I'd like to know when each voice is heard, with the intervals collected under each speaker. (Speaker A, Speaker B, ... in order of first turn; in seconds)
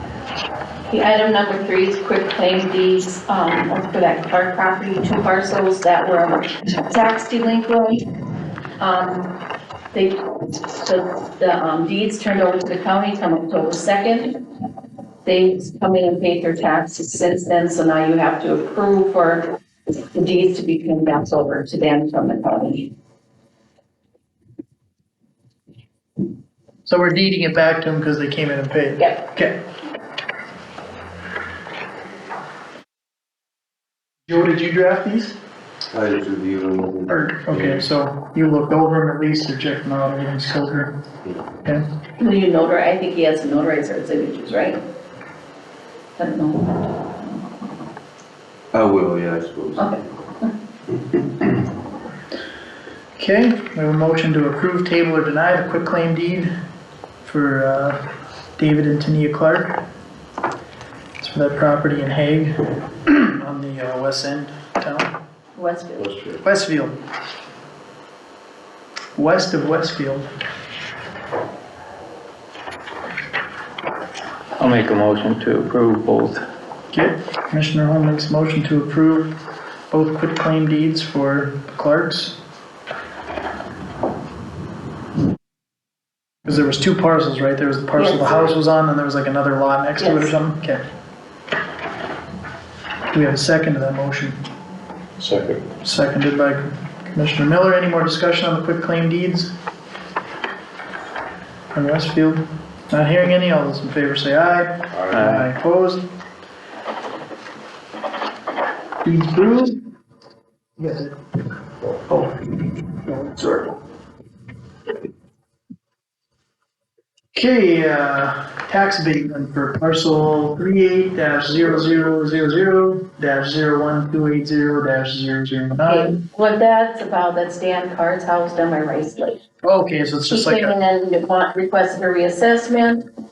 Speaker A: 0.9-8.0, 8.8-9.3, 9.9-10.2, 10.8-14.4, 15.2-19.5, 20.1-22.9, 42.2-44.8, 46.2-47.5, 49.8-50.5, 65.6-66.1, 88.0-88.5, 90.0-90.3, 125.9-129.4, 130.3-133.1
Speaker B: 26.9-29.6, 34.3-35.4, 37.1-40.9, 53.2-56.5, 57.2-58.0, 58.6-59.8, 61.2-62.5, 63.1-65.1, 66.4-67.0, 69.2-70.3, 76.9-79.3, 79.9-82.4, 86.5-90.8, 93.1-94.4, 95.8-99.5, 101.7-106.0, 109.0-109.8, 110.8-111.1, 113.1-113.5, 117.3-126.2, 129.6-130.7
Speaker C: 35.9-37.9, 48.7-50.0, 66.0-66.4
Speaker D: 74.6-76.4, 105.1-105.5